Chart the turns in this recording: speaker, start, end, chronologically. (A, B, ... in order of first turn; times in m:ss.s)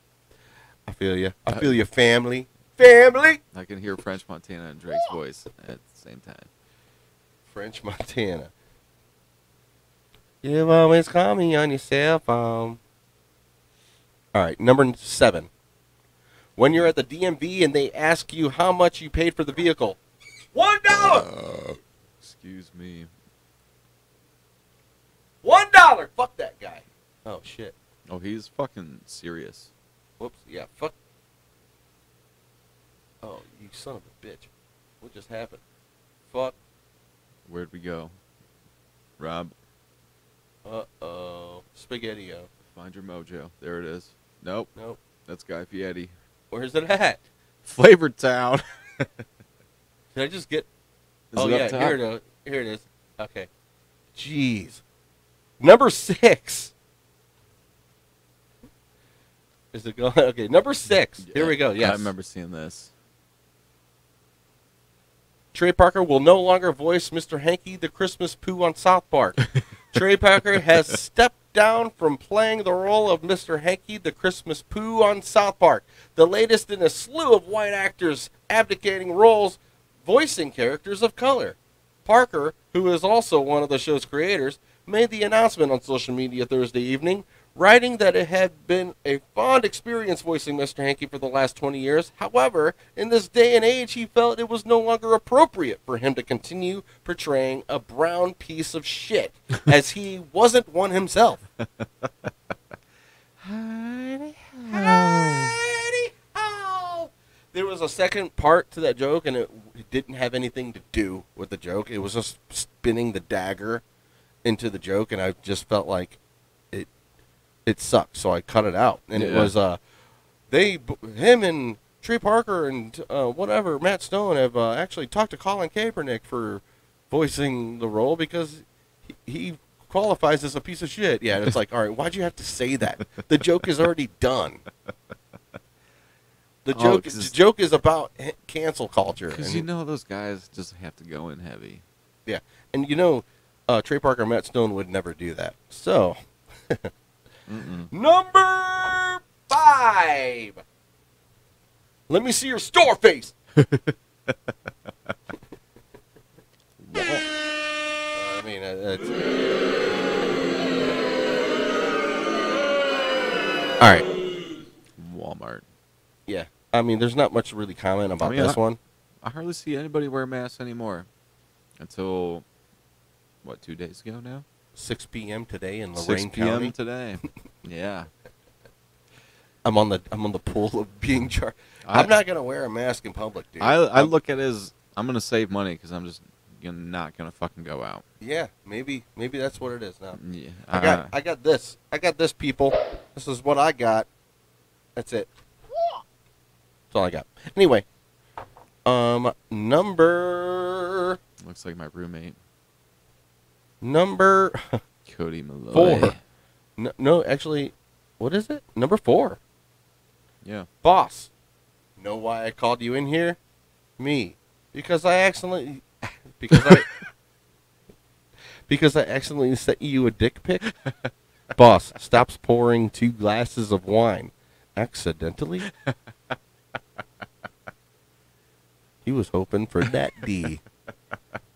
0:00.9-0:03.4 A
0:03.5-0:06.5 B
0:07.5-0:08.5 A
0:10.4-0:12.8 A
0:14.3-0:15.5 A
0:16.6-0:20.0 A
0:20.5-0:21.3 A
0:20.9-0:23.1 B
0:25.4-0:27.7 A
0:28.1-0:29.7 B
0:30.2-0:30.9 A
0:33.2-0:34.5 A
0:35.0-0:35.6 A
0:36.3-0:36.6 A
0:37.4-0:38.1 B
0:39.2-0:39.5 B
0:40.6-0:42.5 A
0:42.7-0:44.7 B
0:45.2-0:46.1 B
0:46.5-0:47.2 A
0:47.6-0:49.1 B
0:50.1-0:50.7 A
0:51.3-0:52.0 B
0:51.4-0:53.5 A
0:54.2-0:54.8 A
0:55.6-0:56.7 A
0:59.7-1:02.1 A
1:01.2-1:02.9 B
1:05.5-1:41.4 A
1:41.8-1:42.3 B
1:43.4-1:45.5 B
1:44.7-1:53.8 A
1:54.4-1:56.2 A
1:57.6-1:59.8 A
1:59.1-1:59.5 B
2:00.5-2:08.6 A
2:09.2-2:14.6 A
2:16.6-2:19.6 A
2:16.7-2:17.3 B
2:19.3-2:21.8 B
2:22.2-2:26.9 A
2:27.5-2:27.9 B
2:27.9-2:30.6 A
2:32.1-2:33.3 A
2:33.6-2:33.9 B
2:36.8-2:37.2 B
2:38.1-2:39.2 A
2:43.8-2:44.0 A
2:45.0-2:45.6 B
2:46.3-2:48.8 A
2:48.2-2:48.6 B
2:49.2-2:51.1 B
2:51.8-2:52.4 B
2:53.4-2:54.4 B
2:54.8-2:56.7 A
2:56.0-2:58.1 B
2:59.6-3:04.1 A
3:01.8-3:02.1 B
3:03.6-3:08.0 B
3:08.2-3:10.2 A
3:10.1-3:11.1 B
3:10.7-3:14.1 A
3:15.0-3:15.3 A
3:16.9-3:17.8 A
3:18.8-3:21.2 A
3:21.4-3:22.4 B
3:23.8-3:24.8 A
3:25.1-3:26.2 B
3:25.7-3:26.1 A
3:26.8-3:29.4 A
3:30.4-3:30.7 B
3:30.8-3:31.3 A
3:32.0-3:33.4 A
3:34.0-3:36.9 A
3:36.5-3:36.8 B
3:38.7-3:40.7 A
3:41.5-3:45.7 A
3:45.7-3:45.9 B
3:49.0-3:50.6 A